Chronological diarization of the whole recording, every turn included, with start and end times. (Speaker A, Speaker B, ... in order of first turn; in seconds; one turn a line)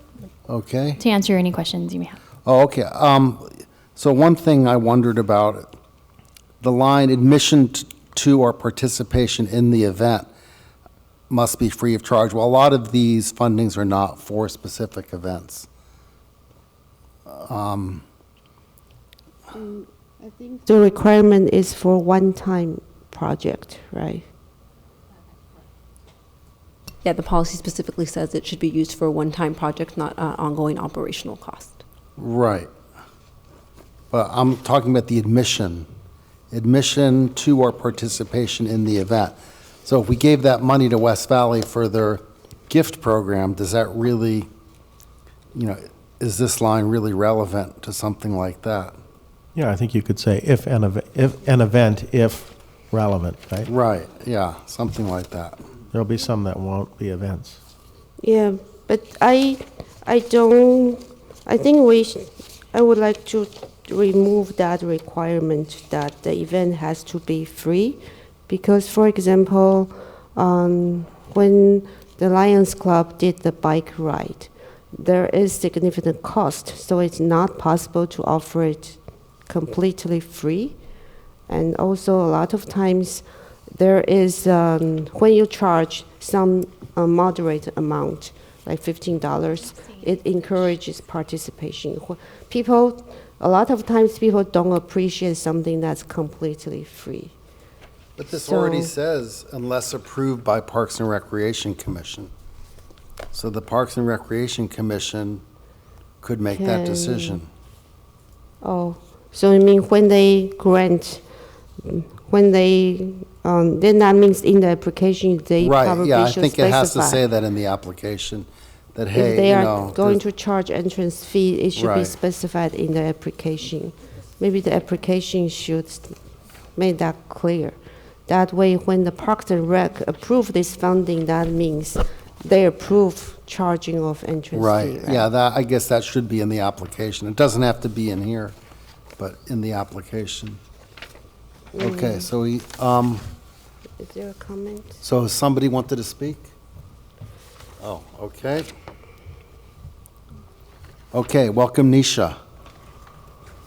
Speaker A: 0.5-1.0
Speaker B: 1.0-2.2
Speaker A: 2.5-5.7
Speaker A: 6.6-10.3
Speaker A: 11.3-15.7
Speaker A: 17.3-18.0
Speaker C: 19.5-24.3
Speaker D: 27.0-31.8
Speaker A: 32.2-32.7
Speaker A: 34.1-35.9
Speaker A: 36.5-44.5
Speaker A: 45.5-49.0
Speaker E: 49.5-53.7
Speaker A: 53.7-55.6
Speaker E: 55.9-57.6
Speaker C: 58.2-80.8
Speaker C: 81.5-97.3
Speaker B: 89.7-90.5
Speaker A: 98.2-102.3
Speaker C: 98.4-98.9
Speaker A: 103.3-105.4
Speaker A: 106.2-107.5
Speaker C: 106.6-107.4
Speaker C: 108.6-111.2
Speaker C: 111.8-117.2
Speaker A: 115.6-120.2
Speaker C: 119.1-126.2
Speaker A: 121.8-122.2
Speaker C: 126.8-127.8
Speaker C: 128.3-135.3
Speaker A: 134.5-138.6
Speaker A: 139.2-140.6
Speaker C: 141.7-142.3
Speaker A: 141.8-143.2
Speaker C: 144.0-145.0
Speaker A: 145.0-146.5
Speaker A: 147.8-148.7
Speaker A: 151.1-152.4